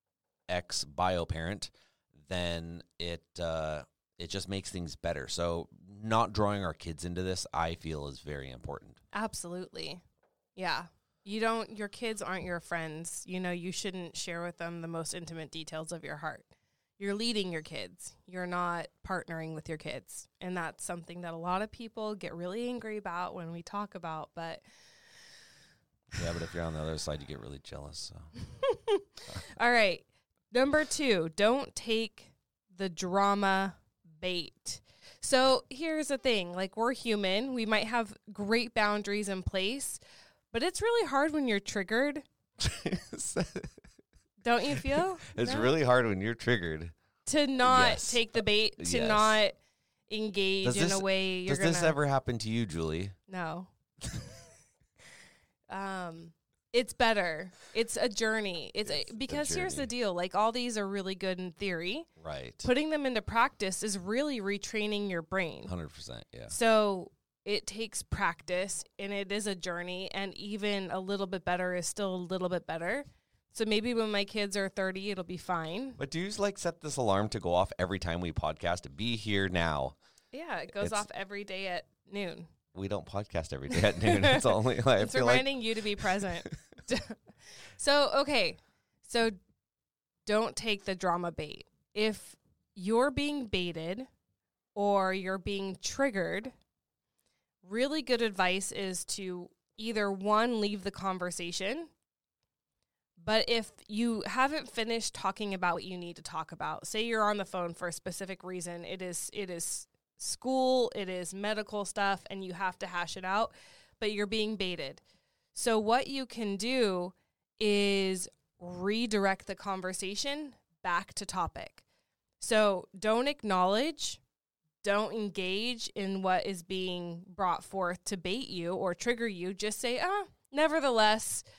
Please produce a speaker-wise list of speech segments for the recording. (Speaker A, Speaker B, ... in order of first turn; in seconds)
Speaker A: 0.5-9.0, 26.1-28.3, 42.6-43.7, 44.7-46.9, 47.6-49.4, 50.6-53.1, 58.8-59.9, 62.2-62.7, 65.7-66.5, 76.0-80.0, 82.7-86.5
Speaker B: 9.1-10.0, 10.6-16.5, 17.0-24.6, 28.5-40.0, 40.5-42.2, 44.4-45.7, 47.2-49.5, 50.1-52.0, 53.3-53.7, 55.7-62.1, 62.6-65.7, 66.5-76.0, 80.3-82.5, 83.7-87.2, 87.8-89.4, 90.2-94.1, 94.7-96.5, 97.6-101.9, 103.2-115.0, 115.5-121.8, 122.4-124.2, 124.8-131.4